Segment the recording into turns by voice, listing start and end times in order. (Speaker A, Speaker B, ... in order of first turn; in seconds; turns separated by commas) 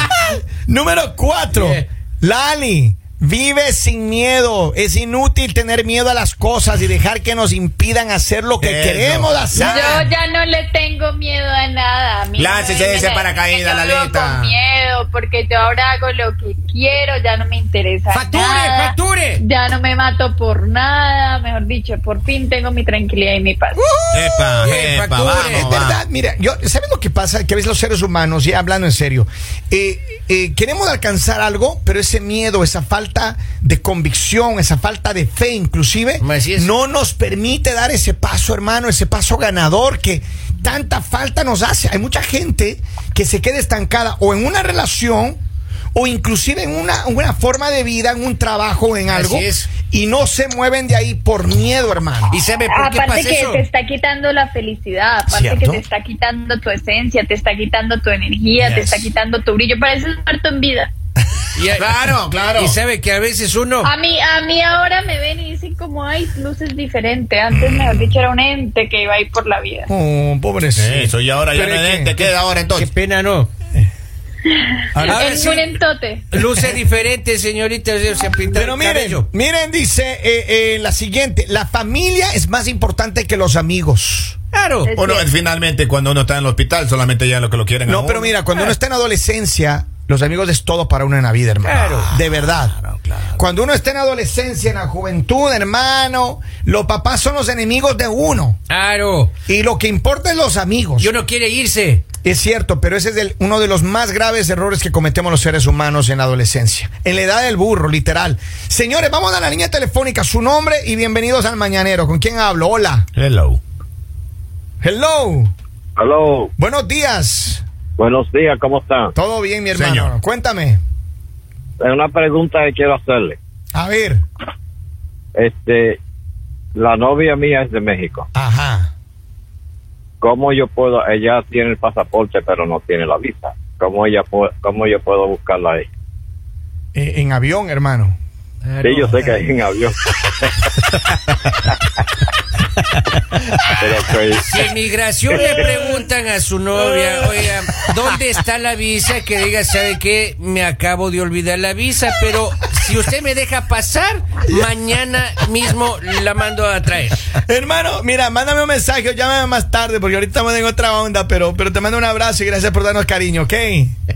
Speaker A: 0.1-10.1, Speaker B: 1.5-1.8, Speaker C: 8.6-10.0, Speaker D: 9.5-18.9, Speaker C: 12.3-14.6, Speaker B: 18.1-19.4, Speaker D: 19.4-23.8, Speaker A: 23.8-24.8, Speaker C: 24.1-26.0, Speaker B: 24.6-25.7, Speaker A: 25.3-45.4, Speaker B: 36.2-36.7, Speaker A: 45.9-52.3, Speaker B: 49.1-49.7, Speaker B: 52.3-53.6, Speaker D: 52.7-60.9, Speaker A: 55.3-55.8, Speaker A: 58.6-59.1, Speaker B: 61.5-63.9, Speaker C: 61.8-62.8, Speaker D: 63.8-69.9, Speaker A: 67.5-68.1, Speaker A: 69.9-72.2, Speaker C: 70.8-72.9, Speaker B: 72.7-73.5, Speaker D: 74.5-76.2, Speaker A: 74.9-75.6, Speaker B: 75.0-75.7, Speaker B: 76.3-79.2, Speaker A: 78.5-84.4, Speaker B: 84.5-84.9, Speaker D: 84.9-85.3, Speaker C: 84.9-88.3, Speaker A: 87.8-92.7, Speaker B: 91.6-92.1, Speaker C: 92.1-93.4, Speaker A: 93.4-98.6, Speaker B: 98.7-99.3, Speaker A: 99.5-101.1, Speaker B: 101.0-102.0, Speaker A: 102.2-113.1, Speaker C: 113.1-113.6, Speaker A: 114.8-115.5, Speaker E: 116.0-116.5, Speaker A: 116.6-117.6, Speaker E: 118.0-119.1, Speaker A: 119.1-120.8, Speaker C: 119.7-120.1, Speaker E: 121.8-123.4, Speaker A: 123.7-124.2, Speaker E: 125.3-126.0, Speaker E: 126.8-128.2, Speaker A: 128.3-128.9, Speaker E: 130.2-135.9, Speaker A: 136.9-138.2, Speaker B: 138.6-139.4, Speaker E: 138.8-139.9, Speaker E: 143.8-144.4, Speaker B: 144.4-157.3, Speaker A: 157.3-163.9